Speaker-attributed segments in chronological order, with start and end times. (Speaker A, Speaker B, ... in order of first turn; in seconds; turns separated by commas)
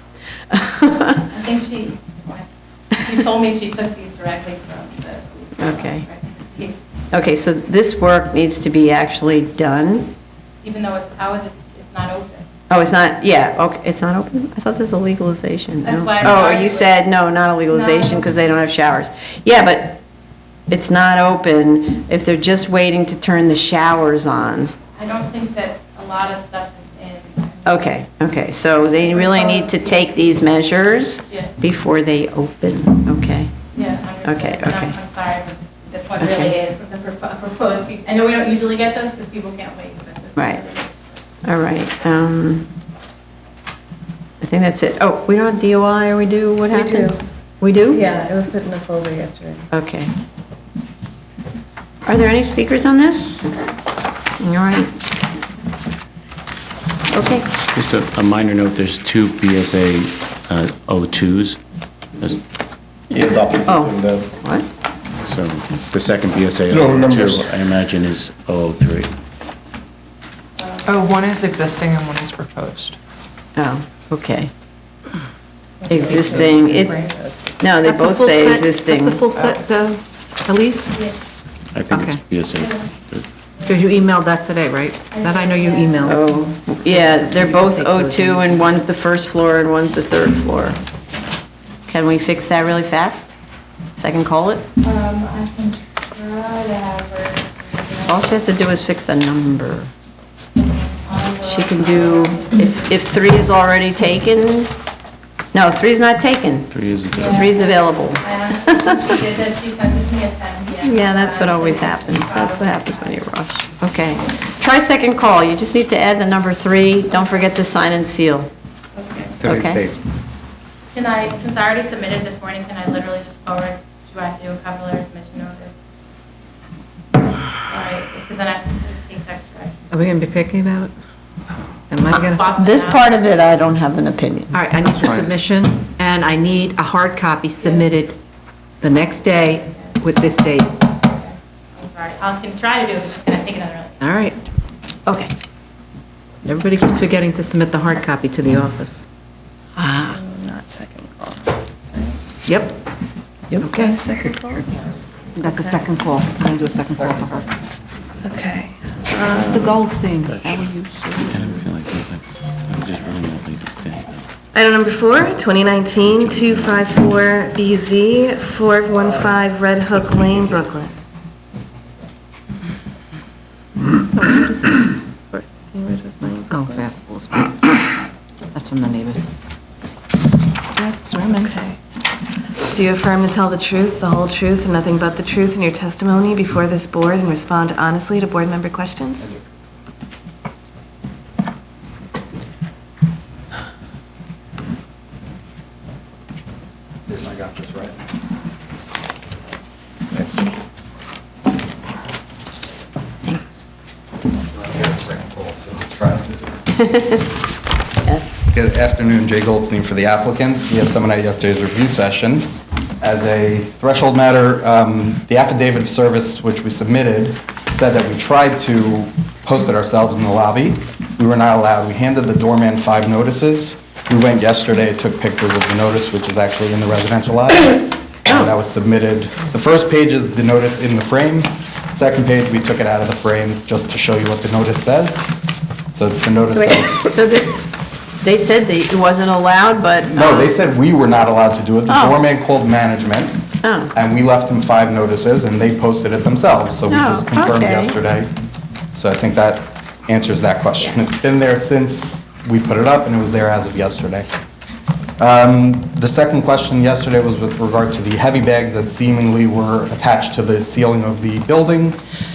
Speaker A: 0.5-1.2, Speaker B: 1.3-6.8, Speaker A: 5.6-6.0, Speaker A: 7.1-10.1, Speaker B: 10.6-12.5, Speaker A: 12.7-20.0, Speaker B: 15.8-16.9, Speaker B: 17.7-18.2, Speaker A: 20.7-24.7, Speaker B: 25.0-27.9, Speaker A: 27.6-33.5, Speaker B: 29.1-30.0, Speaker B: 33.7-41.0, Speaker A: 34.2-35.0, Speaker A: 36.2-36.5, Speaker A: 40.4-40.6, Speaker A: 41.4-42.7, Speaker A: 44.4-48.0, Speaker C: 46.7-47.1, Speaker C: 47.9-49.6, Speaker A: 49.7-50.1, Speaker A: 52.0-53.5, Speaker A: 54.4-54.9, Speaker A: 57.1-57.5, Speaker D: 57.7-61.6, Speaker E: 63.1-64.3, Speaker A: 63.7-64.7, Speaker D: 65.2-69.1, Speaker E: 66.7-67.5, Speaker B: 70.6-71.1, Speaker F: 70.9-73.0, Speaker A: 73.5-74.5, Speaker A: 75.9-77.0, Speaker F: 76.0-77.3, Speaker B: 76.4-76.9, Speaker A: 77.6-79.2, Speaker G: 77.8-81.0, Speaker D: 81.7-83.2, Speaker G: 81.9-82.2, Speaker B: 82.6-82.9, Speaker B: 83.5-83.9, Speaker G: 83.7-86.3, Speaker B: 85.1-86.3, Speaker A: 86.0-90.8, Speaker G: 86.8-88.8, Speaker A: 91.9-93.3, Speaker A: 94.0-94.7, Speaker B: 94.8-98.3, Speaker A: 98.0-99.9, Speaker B: 100.5-103.1, Speaker A: 101.4-104.7, Speaker A: 105.5-108.9, Speaker D: 106.7-107.5, Speaker B: 107.1-113.2, Speaker A: 110.8-118.5, Speaker B: 118.9-119.4, Speaker A: 119.4-119.8, Speaker B: 120.9-125.7, Speaker B: 127.5-129.9, Speaker G: 129.9-130.9, Speaker G: 131.9-132.5, Speaker B: 132.1-133.2, Speaker A: 132.5-134.6, Speaker G: 134.5-138.2, Speaker G: 138.8-140.8, Speaker B: 139.1-140.0, Speaker B: 140.9-144.0, Speaker G: 144.0-144.4, Speaker A: 145.1-145.3, Speaker G: 146.4-149.1, Speaker A: 149.8-150.2, Speaker C: 150.1-152.2, Speaker G: 152.5-152.8, Speaker G: 153.6-154.0, Speaker C: 153.6-154.8, Speaker G: 155.3-157.5, Speaker C: 155.4-156.0, Speaker C: 158.2-159.8, Speaker F: 159.3-159.6, Speaker G: 159.8-161.3, Speaker D: 160.3-160.6, Speaker D: 161.2-164.2, Speaker C: 164.5-170.9, Speaker D: 166.1-166.8, Speaker G: 174.1-174.9, Speaker C: 175.3-176.8, Speaker G: 176.5-177.5, Speaker G: 178.5-179.3, Speaker G: 180.8-181.5, Speaker C: 181.2-181.8, Speaker C: 182.7-189.3, Speaker H: 197.0-198.0, Speaker H: 204.5-206.7, Speaker A: 206.8-207.1, Speaker A: 208.0-208.5, Speaker H: 208.5-235.3, Speaker H: 235.9-237.1, Speaker A: 236.5-237.6, Speaker A: 238.2-240.5, Speaker H: 240.1-243.4, Speaker A: 241.9-242.2, Speaker A: 243.6-243.9, Speaker H: 243.9-248.3, Speaker A: 246.9-247.9, Speaker H: 248.9-254.4, Speaker H: 255.2-262.0